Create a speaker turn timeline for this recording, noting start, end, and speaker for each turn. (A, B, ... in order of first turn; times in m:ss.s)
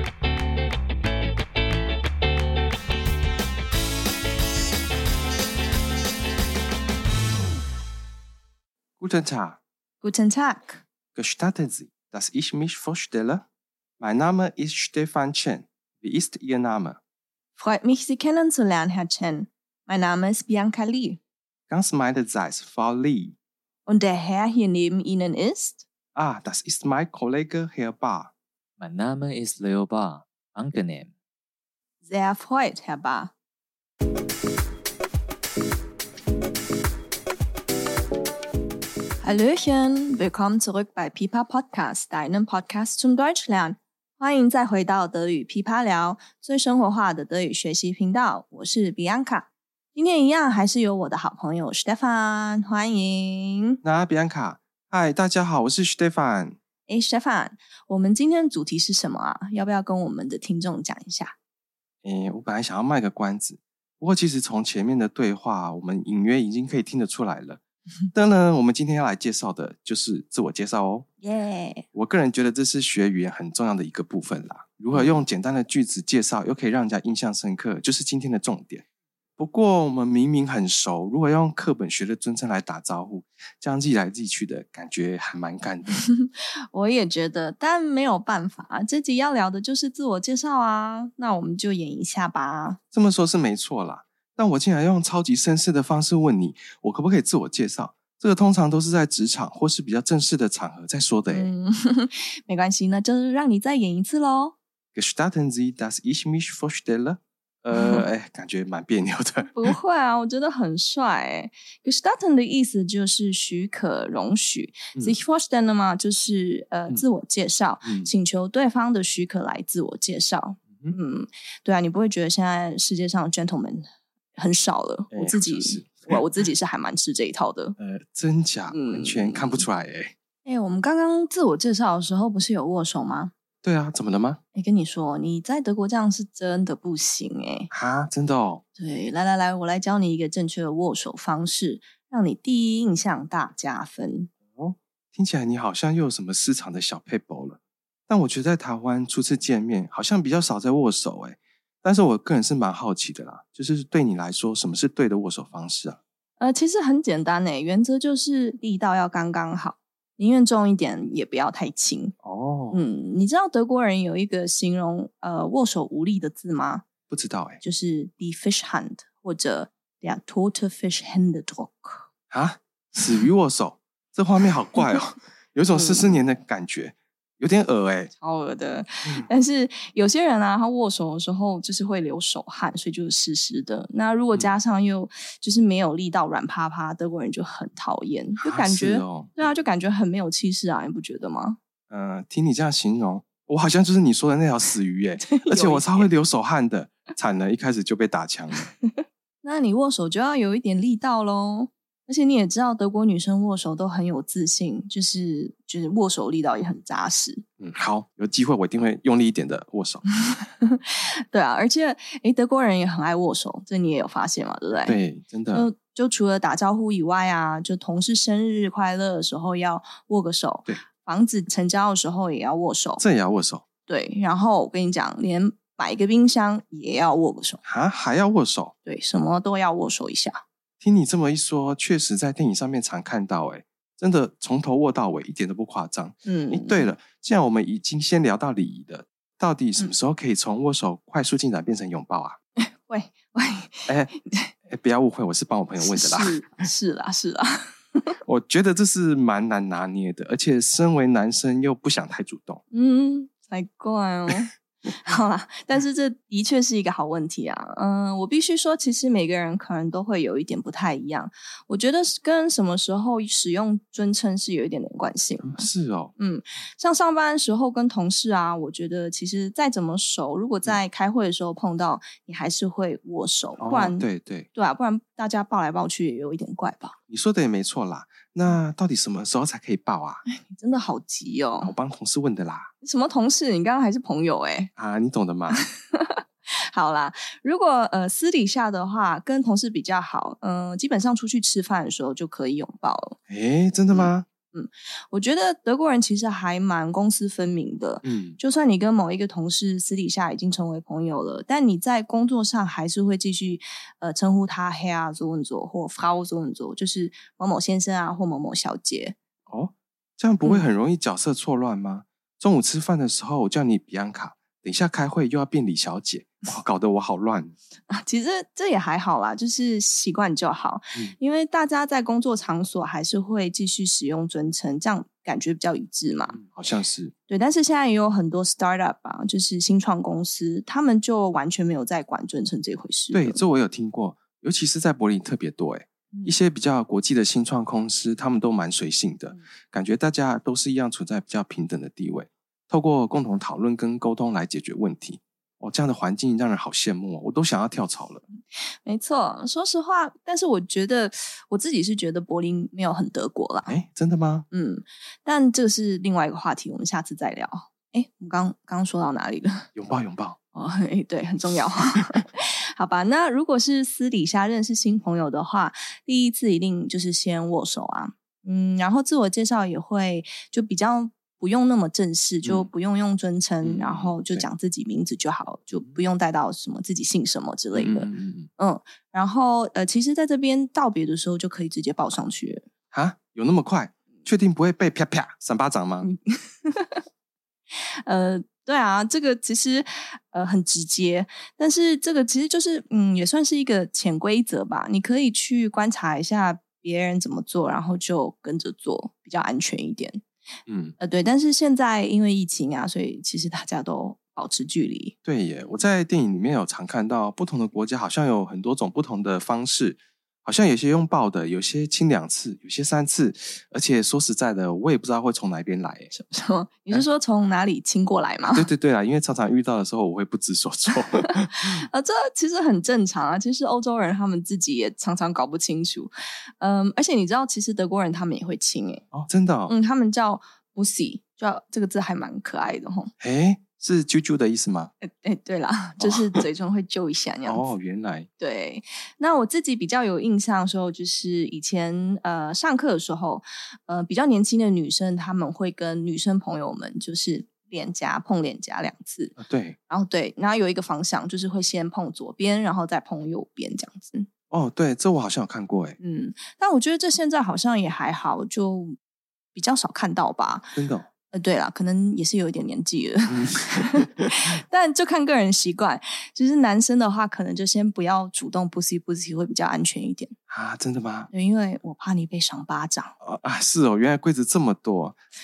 0:09.0-0:09.6 A
0:10.0-0:10.8 B
0:11.1-0:13.4 A
0:14.0-0:17.0 A
0:17.6-0:21.2 B
0:21.7-0:23.4 A
0:23.8-0:25.8 B
0:26.1-0:28.3 A
0:28.8-0:31.1 C
0:32.0-0:33.3 B
0:39.2-0:53.8 B
0:53.8-0:56.6 A
0:56.9-1:01.3 B
1:02.0-1:07.6 A
1:08.1-1:11.0 A
1:11.2-1:11.8 B
1:11.9-1:18.8 A
1:14.9-1:15.2 B
1:19.4-1:26.0 A
1:25.9-1:32.8 B
1:32.9-1:41.5 A
1:41.3-1:44.6 B
1:44.9-1:49.7 A
1:47.7-1:48.0 B
1:49.5-2:07.8 B
1:57.8-1:58.1 A
2:05.1-2:06.2 A
2:07.8-2:10.1 A
2:08.7-2:09.6 B
2:10.4-2:13.3 B
2:13.6-2:14.4 A
2:14.5-2:17.7 B
2:17.7-2:18.6 A
2:18.8-2:24.3 B
2:24.5-2:36.0 A
2:36.4-2:42.1 B
2:42.2-2:42.8 A
2:42.7-2:46.8 B
2:47.1-2:47.6 A
2:47.6-2:52.1 B
2:52.3-2:58.1 A
2:55.7-2:56.2 B
2:58.2-3:11.6 B
3:08.4-3:09.4 A
3:11.9-3:18.7 A
3:15.2-3:16.1 B
3:18.8-3:27.4 B
3:27.6-3:30.0 A
3:30.2-3:35.0 B
3:34.8-3:35.7 A
3:35.5-3:43.0 B
3:43.0-3:43.6 A
3:43.9-3:47.6 B
3:47.6-3:48.7 A
3:48.8-3:50.4 B
3:50.8-4:02.4 A
3:56.2-3:56.9 B
4:02.6-4:04.5 B
4:03.9-4:04.1 A
4:04.7-4:06.6 A
4:05.8-4:08.1 B
4:08.2-4:12.6 A
4:12.7-4:37.0 B
4:25.4-4:26.1 A
4:33.6-4:34.5 A
4:37.1-4:40.2 A
4:40.3-4:41.7 B
4:41.6-4:42.7 A
4:42.8-4:44.7 B
4:44.8-4:45.6 A
4:45.5-4:53.2 B
4:53.3-4:54.2 A
4:53.9-5:09.2 B
4:58.0-4:58.4 A
5:09.5-5:17.5 A
5:10.4-5:10.7 B
5:17.9-5:26.4 B
5:26.3-5:27.1 A
5:27.3-5:33.4 B
5:33.1-5:48.2 A
5:36.1-5:36.4 B
5:48.8-5:53.8 B
5:53.7-5:54.4 A
5:54.5-5:59.7 B
5:59.7-6:00.4 A
6:00.5-6:22.6 B
6:12.4-6:12.7 A
6:13.6-6:14.5 A
6:17.7-6:18.5 A
6:22.9-6:26.1 A
6:26.0-6:27.0 B
6:28.0-6:40.2 B
6:40.7-6:40.9 A
6:41.0-6:45.1 B
6:45.2-6:56.1 A
6:56.1-6:58.7 B
6:58.5-7:01.8 A
7:01.2-7:09.0 B
7:09.1-7:09.7 A
7:09.7-7:13.1 B
7:13.2-7:14.9 A
7:15.0-7:17.7 B
7:16.0-7:16.4 A
7:17.4-7:18.3 A
7:18.4-7:29.4 B
7:29.4-7:29.8 A
7:29.9-7:34.3 B
7:34.5-7:36.0 A
7:36.0-7:39.0 B
7:39.5-7:40.7 B
7:40.7-7:41.1 A
7:41.3-7:50.3 B
7:43.3-7:44.3 A
7:50.5-7:51.3 A
7:51.3-7:53.1 B
7:53.2-7:55.2 A